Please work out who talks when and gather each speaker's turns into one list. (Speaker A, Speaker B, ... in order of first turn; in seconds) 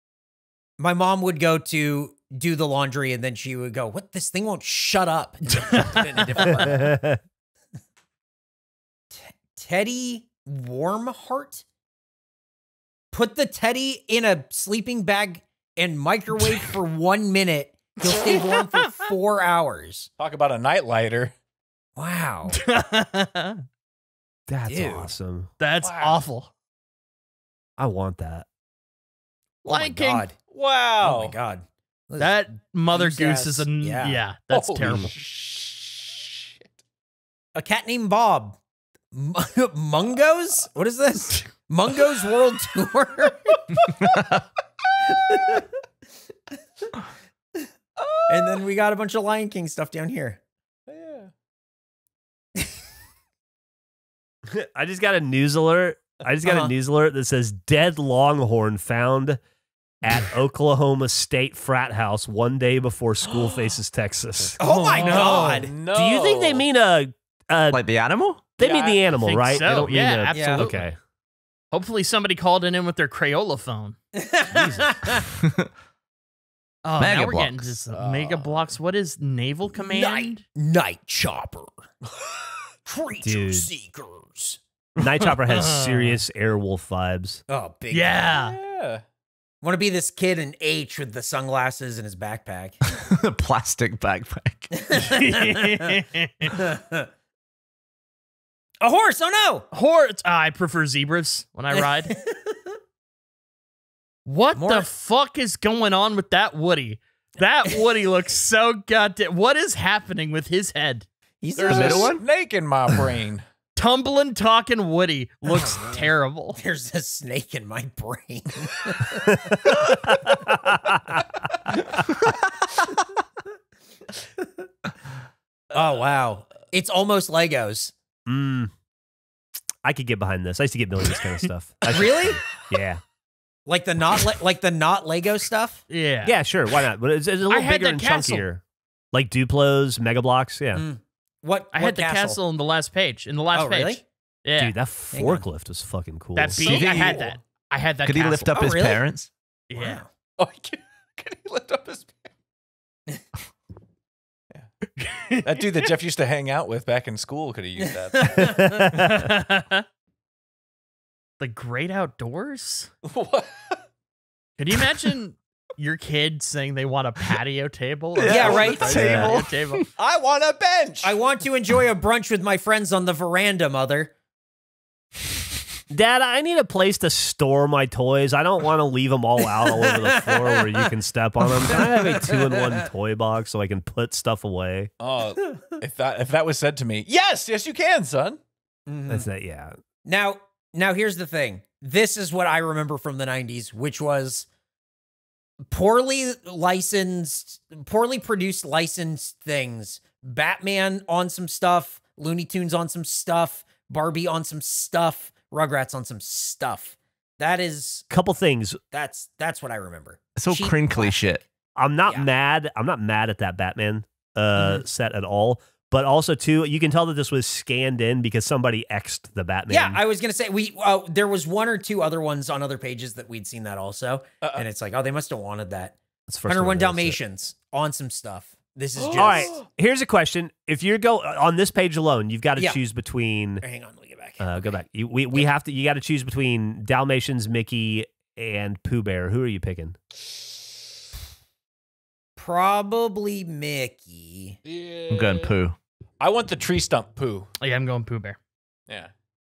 Speaker A: 0.8-6.9, 9.1-11.6, 13.1-20.1, 21.9-22.6, 24.7-25.1, 29.6-30.4, 31.0-32.3, 32.9-34.2, 37.5-38.6, 39.1-44.1, 45.1-45.6, 48.3-50.4, 56.4-56.7, 64.6-65.7, 70.3-70.7, 74.1-75.2, 79.8-81.7, 82.9-84.6, 87.5-88.3, 89.6-92.8, 94.8-95.8, 96.5-97.1, 98.8-99.7, 101.7-102.7, 104.5-104.9, 111.4-112.1, 115.5-120.0, 125.7-127.9, 131.9-132.4, 133.7-135.8, 140.7-142.4, 143.5-144.0, 145.1-145.4, 148.5-149.0, 149.7-150.1, 157.8-158.9, 168.3-169.0, 171.0-174.1, 179.6-180.9, 181.6-182.8, 188.9-189.2, 190.0-194.5, 195.7-208.1, 208.9-211.4, 219.7-229.6, 233.6-234.8, 242.4-244.6
Speaker B: 6.5-7.2, 24.5-25.5, 27.8-28.4, 54.5-59.4, 60.0-67.8, 68.6-71.0, 74.5-74.8, 83.2-83.7, 85.0-87.4, 120.3-121.2, 128.3-128.7, 129.8-133.0, 136.2-140.8, 144.6-146.8, 158.4-159.1, 169.0-169.3, 175.9-184.9, 189.1-189.7, 208.1-208.8, 211.8-220.0, 226.3-227.2, 229.1-233.6, 234.4-240.0
Speaker C: 18.0-18.9, 22.5-23.6, 25.6-26.5, 29.7-30.2, 32.2-35.1, 64.7-65.7, 69.2-70.8, 71.7-74.0, 76.8-80.4, 85.4-86.2, 87.9-88.6, 94.9-96.6, 99.7-102.2, 104.2-111.1, 113.8-116.6, 135.9-136.4, 137.5-138.4, 141.7-144.7, 146.3-148.5, 149.7-150.0, 155.0-155.8, 158.9-159.8, 161.4-162.9, 164.6-169.9, 214.6-214.8, 247.6-248.4
Speaker D: 20.2-21.3, 25.8-26.2, 30.4-31.4, 34.5-36.7, 48.0-48.6, 50.9-51.3, 64.9-66.6, 68.6-69.0, 77.9-78.7, 88.3-89.0, 111.5-113.4, 146.6-147.3, 150.4-152.3, 155.4-158.6, 163.0-163.8, 170.0-171.2, 185.0-188.4, 224.4-224.7, 229.0-229.6, 244.6-245.5, 246.2-247.5
Speaker E: 67.7-68.4, 75.4-75.7, 77.0-77.8, 93.0-94.7, 111.7-112.2, 146.6-147.2, 148.0-149.3, 168.2-169.9, 210.3-211.4, 245.1-245.8